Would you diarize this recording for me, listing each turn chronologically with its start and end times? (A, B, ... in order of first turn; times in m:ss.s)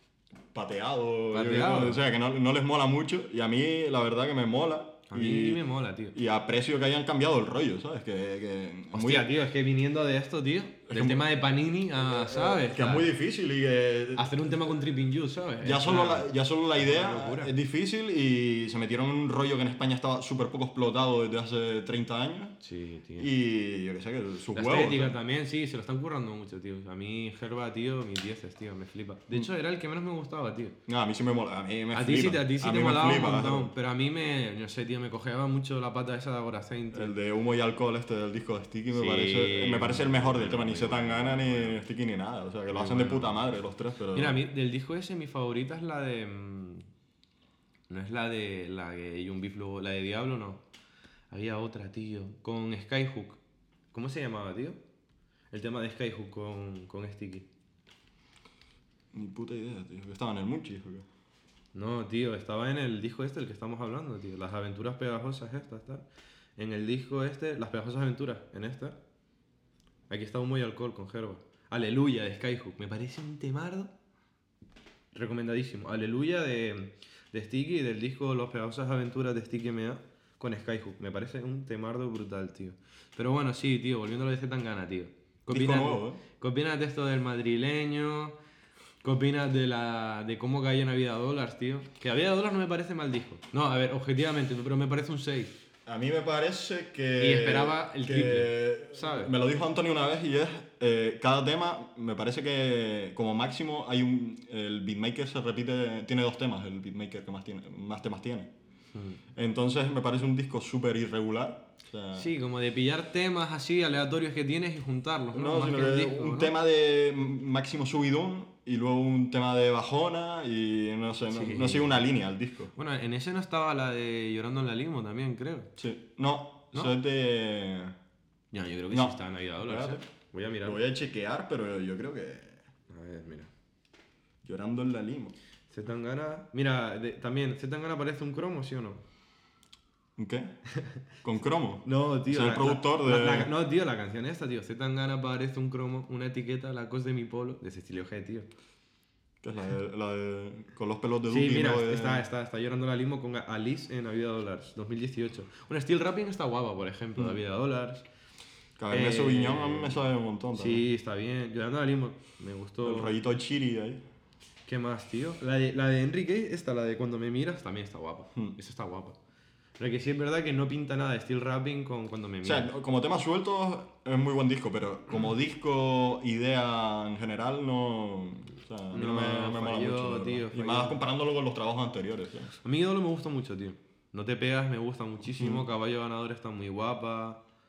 0:00.5-0:05.6 A
0:01.3-0:02.0 B
0:05.1-0:06.2 B
0:06.1-0:09.3 A
0:08.9-0:13.1 B
0:10.9-0:11.3 A
0:11.9-0:14.8 A
0:14.2-0:17.5 B
0:15.6-0:22.6 A
0:22.6-0:23.3 B
0:23.2-0:25.1 A
0:24.5-0:30.8 B
0:30.9-0:33.7 A
0:31.9-0:37.1 B
0:36.9-0:44.4 A
0:38.9-0:41.8 B
0:42.7-0:43.5 B
0:44.1-0:46.8 B
0:47.9-0:50.6 B
0:51.3-0:53.4 B
0:53.9-0:54.8 B
0:55.5-0:57.4 B
0:59.1-1:01.1 A
1:01.7-1:06.0 B
1:06.6-1:09.0 B
1:10.1-1:13.9 B
1:15.1-1:28.3 B
1:25.5-1:26.2 A
1:29.0-1:35.6 B
1:35.8-1:48.5 A
1:37.2-1:39.3 B
1:48.9-1:49.2 B
1:49.3-1:52.3 A
1:52.1-1:56.5 B
1:55.3-2:02.7 A
2:01.3-2:02.0 B
2:02.7-2:05.7 B
2:05.8-2:08.0 A
2:08.5-2:10.8 B
2:08.9-2:10.0 A
2:10.6-2:12.6 A
2:12.9-2:13.5 B
2:14.4-2:15.4 A
2:15.7-2:19.0 B
2:20.2-2:20.6 A
2:21.2-2:23.5 A
2:21.8-2:28.5 B
2:29.4-2:32.2 A
2:31.3-2:38.0 B
2:38.8-2:40.8 A
2:38.9-2:40.0 B
2:40.5-2:43.2 B
2:42.8-2:44.0 A
2:44.6-2:49.2 B
2:49.8-2:52.7 B
2:52.4-3:02.6 A
2:58.9-3:01.0 B
3:02.6-3:07.4 B
3:05.3-3:05.6 A